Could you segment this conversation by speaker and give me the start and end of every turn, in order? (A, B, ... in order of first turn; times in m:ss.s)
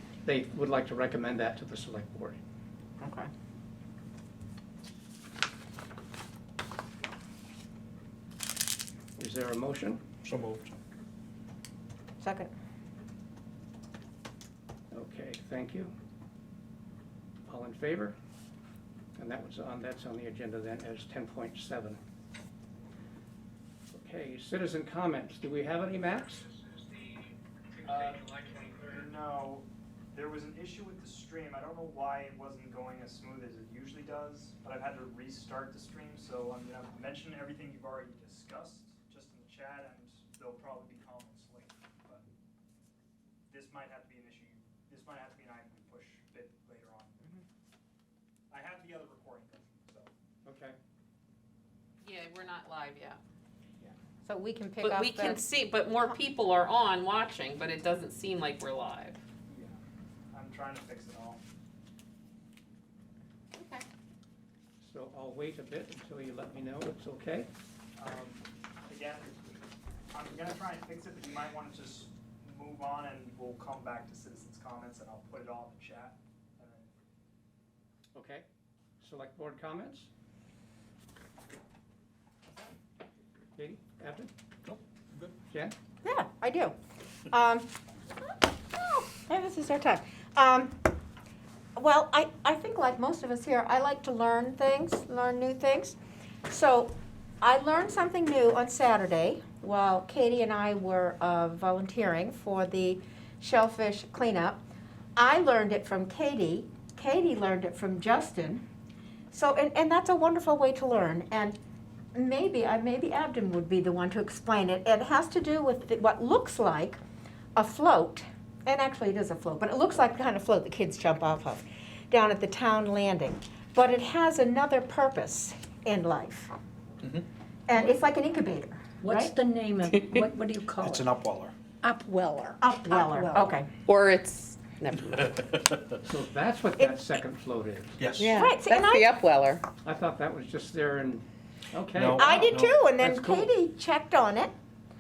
0:00.2-0:02.4 A
0:03.0-0:03.3 B
0:09.2-0:10.0 A
0:10.2-0:10.7 C
0:12.2-0:12.5 B
0:14.9-0:15.9 A
0:17.5-0:18.2 A
0:19.2-0:22.0 A
0:23.9-0:26.5 A
0:27.9-0:28.7 A
0:28.9-0:42.2 D
0:43.5-0:47.2 D
0:48.5-0:50.1 D
0:50.4-0:50.8 A
0:52.0-0:53.2 E
0:54.2-0:55.4 B
0:54.8-0:59.2 E
1:00.3-1:01.4 D
1:03.5-1:03.8 E
1:04.8-1:07.5 A
1:08.0-1:09.6 D
1:10.1-1:16.9 D
1:18.1-1:18.4 A
1:19.0-1:20.1 A
1:23.6-1:24.3 A
1:24.6-1:25.4 C
1:26.0-1:26.8 B
1:27.3-1:27.7 B
1:28.7-1:30.8 B
1:31.8-1:36.0 B
1:36.5-1:44.6 B
1:45.2-1:48.6 B
1:49.3-1:51.6 B
1:52.2-1:57.0 B
1:57.6-2:06.5 B
2:07.7-2:09.3 B
2:09.0-2:11.1 F
2:10.8-2:11.6 C
2:11.8-2:13.6 F
2:12.6-2:13.7 B
2:13.9-2:15.3 E
2:15.1-2:16.0 C
2:16.1-2:18.0 A
2:18.0-2:18.4 C
2:18.2-2:19.6 E
2:18.3-2:19.1 B
2:19.8-2:23.5 A
2:21.9-2:22.8 C
2:22.2-2:24.5 B